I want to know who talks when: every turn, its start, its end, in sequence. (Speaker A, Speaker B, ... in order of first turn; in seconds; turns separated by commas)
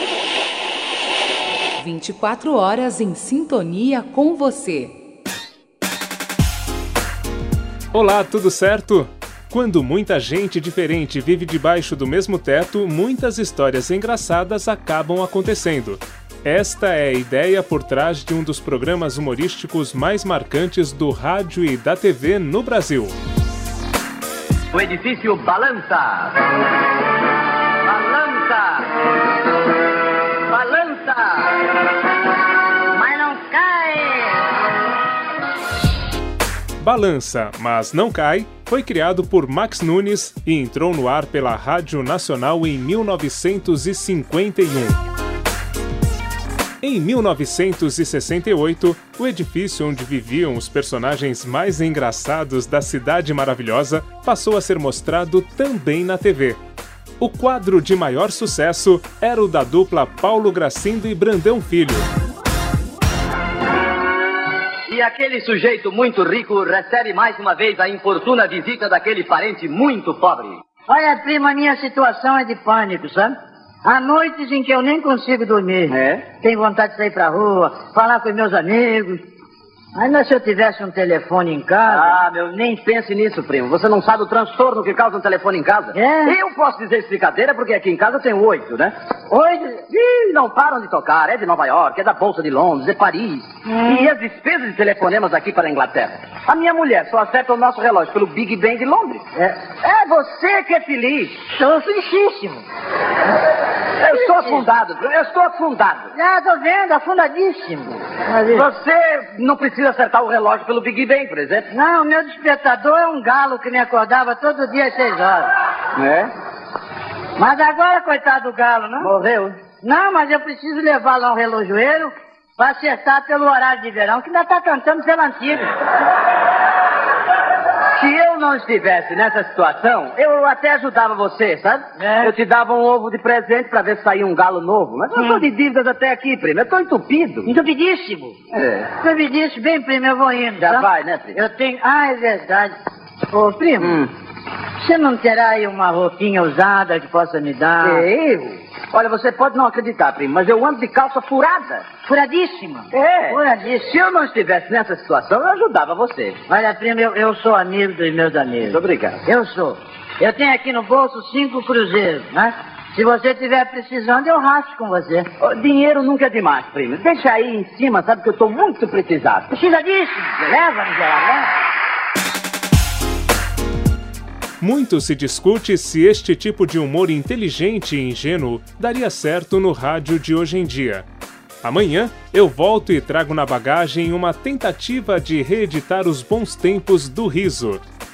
Speaker A: 1.8-4.9, Speaker B: 7.9-23.1, Speaker C: 24.7-26.4, Speaker C: 27.8-28.9, Speaker C: 30.4-31.6, Speaker D: 32.9-34.4, Speaker B: 36.8-45.0, Speaker B: 46.8-56.6, Speaker B: 57.2-62.0, Speaker C: 64.9-70.6, Speaker D: 70.9-79.2, Speaker C: 75.9-76.2, Speaker D: 80.0-82.2, Speaker C: 81.9-88.9, Speaker D: 85.9-86.4, Speaker D: 89.3-89.8, Speaker C: 89.9-101.4, Speaker D: 93.7-94.1, Speaker D: 101.5-102.7, Speaker C: 104.0-106.1, Speaker D: 104.1-104.7, Speaker D: 106.1-108.7, Speaker C: 108.5-111.7, Speaker D: 111.7-115.5, Speaker C: 116.0-116.3, Speaker D: 117.4-119.1, Speaker C: 119.0-119.6, Speaker D: 119.8-125.7, Speaker C: 127.9-137.5, Speaker D: 132.0-132.3, Speaker D: 135.2-135.4, Speaker D: 137.5-138.4, Speaker C: 138.5-138.9, Speaker D: 139.0-142.8, Speaker C: 140.6-141.4, Speaker D: 143.3-144.0, Speaker C: 143.8-144.1, Speaker D: 144.8-148.1, Speaker C: 147.8-151.8, Speaker D: 152.1-153.9, Speaker C: 152.9-156.4, Speaker D: 156.5-165.3, Speaker C: 158.7-159.2, Speaker C: 165.4-169.5, Speaker D: 169.5-171.5, Speaker B: 174.6-181.1, Speaker B: 181.6-187.8